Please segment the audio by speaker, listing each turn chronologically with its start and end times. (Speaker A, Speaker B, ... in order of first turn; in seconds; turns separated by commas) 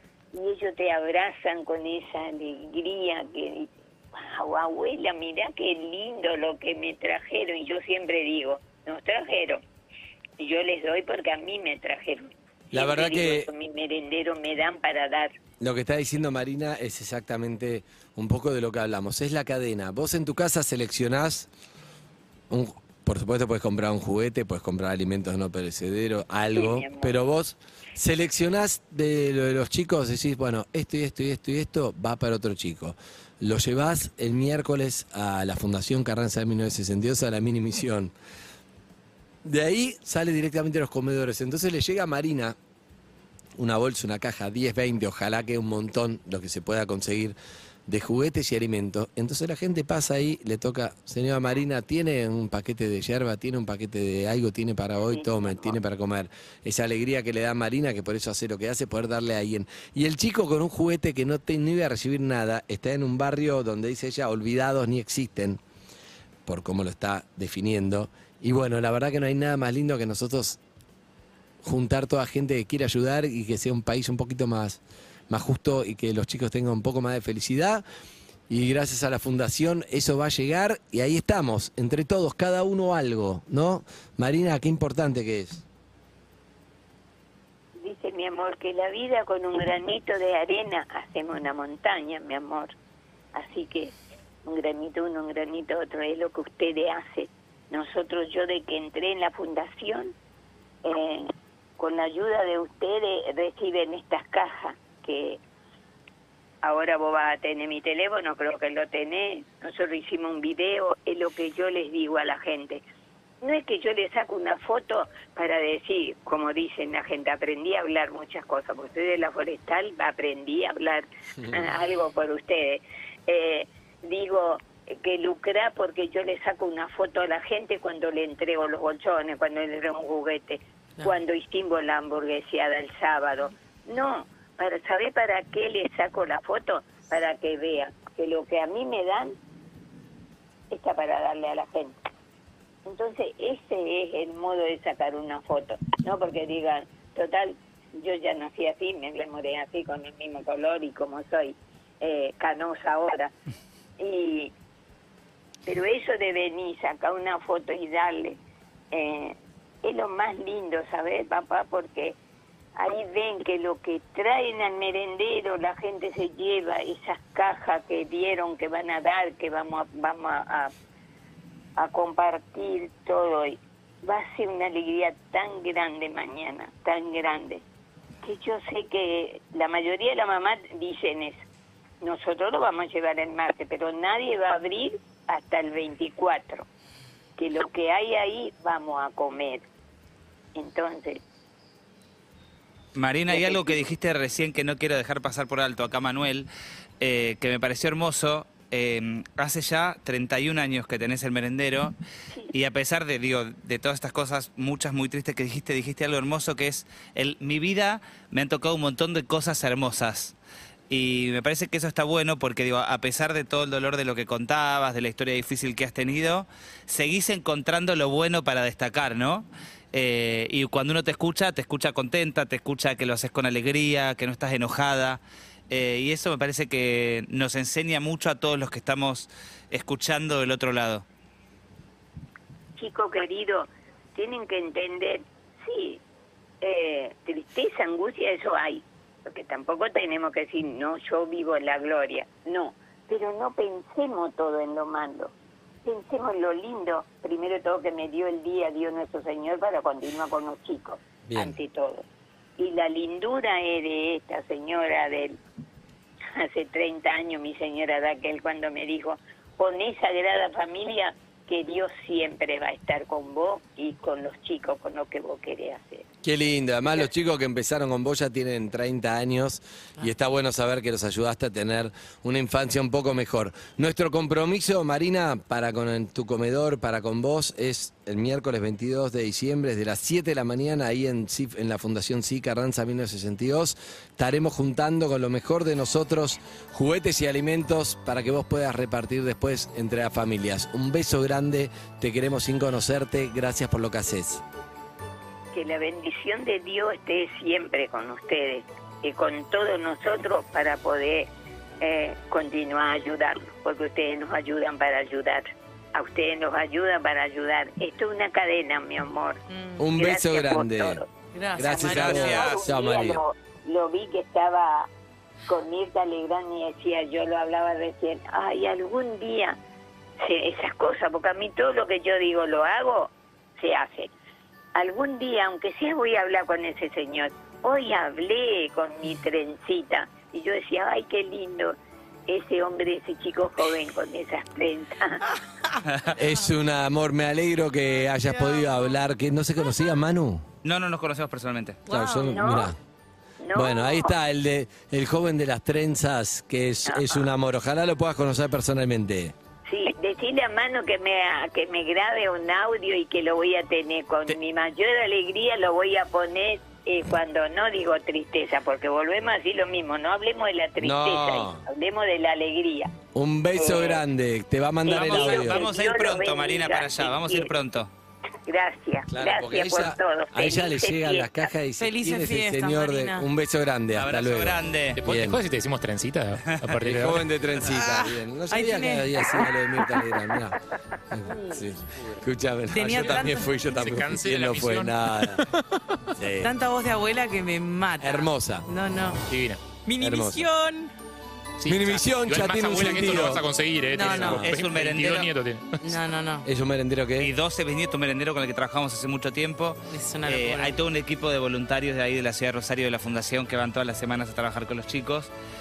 Speaker A: 0.3-9.6, Speaker A: 10.4-15.3, Speaker B: 12.7-13.5, Speaker B: 15.6-21.5, Speaker B: 22.5-38.1, Speaker A: 26.5-27.2, Speaker B: 39.4-42.5, Speaker B: 43.6-47.4, Speaker B: 47.9-65.6, Speaker A: 55.0-55.8, Speaker B: 66.5-70.6, Speaker B: 71.6-77.8, Speaker B: 78.5-85.6, Speaker A: 87.8-92.7, Speaker A: 93.3-100.1, Speaker A: 100.8-105.4, Speaker A: 106.6-112.8, Speaker A: 113.4-139.3, Speaker A: 140.7-142.0, Speaker A: 142.8-153.3, Speaker A: 154.0-154.5, Speaker A: 155.7-158.4, Speaker A: 158.9-162.2, Speaker A: 162.7-170.7, Speaker A: 171.8-177.6, Speaker A: 178.2-181.4, Speaker A: 182.0-186.7, Speaker A: 187.4-189.6, Speaker A: 190.5-191.2, Speaker C: 192.9-196.5, Speaker A: 193.3-193.9, Speaker C: 197.0-201.9, Speaker C: 202.5-210.3, Speaker C: 210.9-231.0, Speaker A: 232.8-236.0, Speaker A: 236.6-245.3, Speaker A: 245.8-252.0, Speaker B: 251.2-251.6, Speaker A: 252.6-255.4, Speaker A: 256.3-266.1, Speaker B: 266.2-294.4, Speaker A: 295.5-301.3, Speaker A: 301.8-309.4, Speaker D: 309.5-309.9, Speaker B: 309.8-311.0, Speaker A: 310.0-311.1, Speaker D: 311.3-312.5, Speaker B: 311.5-313.2, Speaker C: 311.8-312.5, Speaker A: 312.3-314.9, Speaker A: 315.5-319.6, Speaker A: 320.2-324.1, Speaker A: 324.7-331.8, Speaker A: 332.3-335.2, Speaker D: 335.3-335.8, Speaker B: 336.1-340.4, Speaker C: 340.6-341.8, Speaker D: 341.9-342.4, Speaker B: 341.9-342.8, Speaker A: 342.2-342.7, Speaker A: 343.4-344.1, Speaker B: 343.5-349.3, Speaker A: 346.9-347.2, Speaker A: 349.6-363.0, Speaker B: 360.8-361.6, Speaker B: 363.1-365.7, Speaker A: 363.5-364.0, Speaker A: 364.9-367.5, Speaker C: 364.9-367.9, Speaker A: 368.4-371.5, Speaker B: 369.1-375.4, Speaker D: 371.8-373.3, Speaker C: 373.9-375.0, Speaker E: 374.9-377.2, Speaker B: 376.8-380.6, Speaker D: 377.7-380.0, Speaker B: 381.1-385.5, Speaker D: 382.7-383.5, Speaker E: 383.0-384.9, Speaker B: 386.1-386.5, Speaker D: 386.4-389.2, Speaker B: 388.0-388.7, Speaker E: 389.3-389.6, Speaker D: 389.8-390.9, Speaker B: 390.0-390.5, Speaker E: 391.6-395.8, Speaker B: 391.6-393.4, Speaker D: 393.9-394.4, Speaker B: 394.0-394.5, Speaker C: 394.1-395.3, Speaker D: 395.8-396.5, Speaker B: 396.4-397.3, Speaker C: 397.2-405.3, Speaker D: 399.9-400.7